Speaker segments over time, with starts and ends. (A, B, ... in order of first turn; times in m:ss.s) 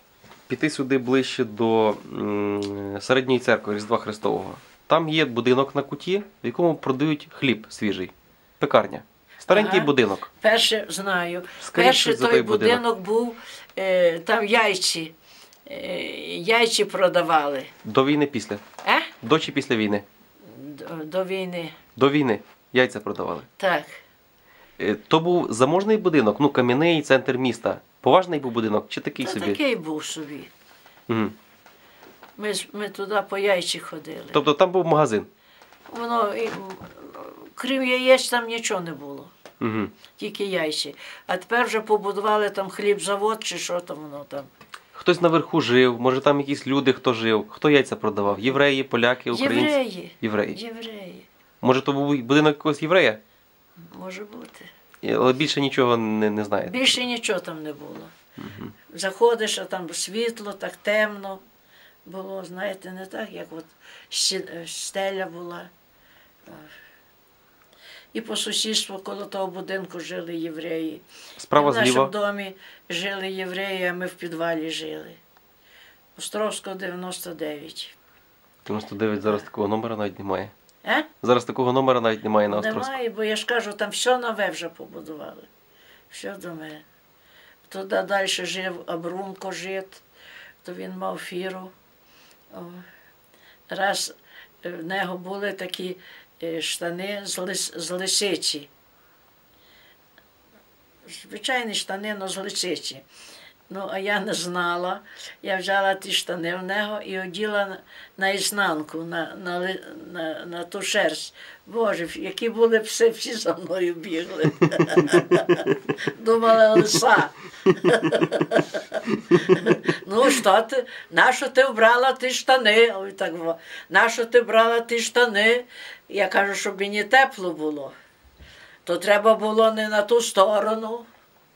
0:00.5-0:10.3 A
0:09.5-0:15.1 B
0:11.6-0:12.8 A
0:15.6-0:17.7 B
0:17.8-0:18.6 A
0:18.8-0:19.1 B
0:19.2-0:20.0 A
0:20.5-0:21.8 B
0:22.0-0:23.5 A
0:23.6-0:24.0 B
0:24.8-0:29.6 A
0:29.2-0:30.5 B
0:31.1-0:31.3 A
0:32.4-0:34.4 B
0:34.3-0:35.3 A
0:35.9-0:39.3 B
0:39.6-0:39.9 A
0:40.2-0:44.5 B
0:44.9-0:50.6 A
0:49.3-0:51.3 B
0:51.6-0:53.2 A
0:53.8-0:54.7 B
0:55.0-0:57.0 A
0:56.7-0:58.1 B
0:58.4-0:58.7 A
0:58.9-1:01.4 B
1:02.0-1:05.7 B
1:06.4-1:06.7 B
1:08.1-1:11.0 B
1:11.4-1:12.1 A
1:11.6-1:15.2 B
1:16.2-1:17.9 B
1:18.6-1:20.5 A
1:21.2-1:23.0 A
1:22.5-1:25.5 B
1:26.1-1:26.8 B
1:27.7-1:30.0 B
1:30.6-1:31.7 B
1:32.5-1:32.8 B
1:33.7-1:38.7 B
1:41.0-1:43.0 B
1:43.7-2:07.9 B
2:08.8-2:11.1 B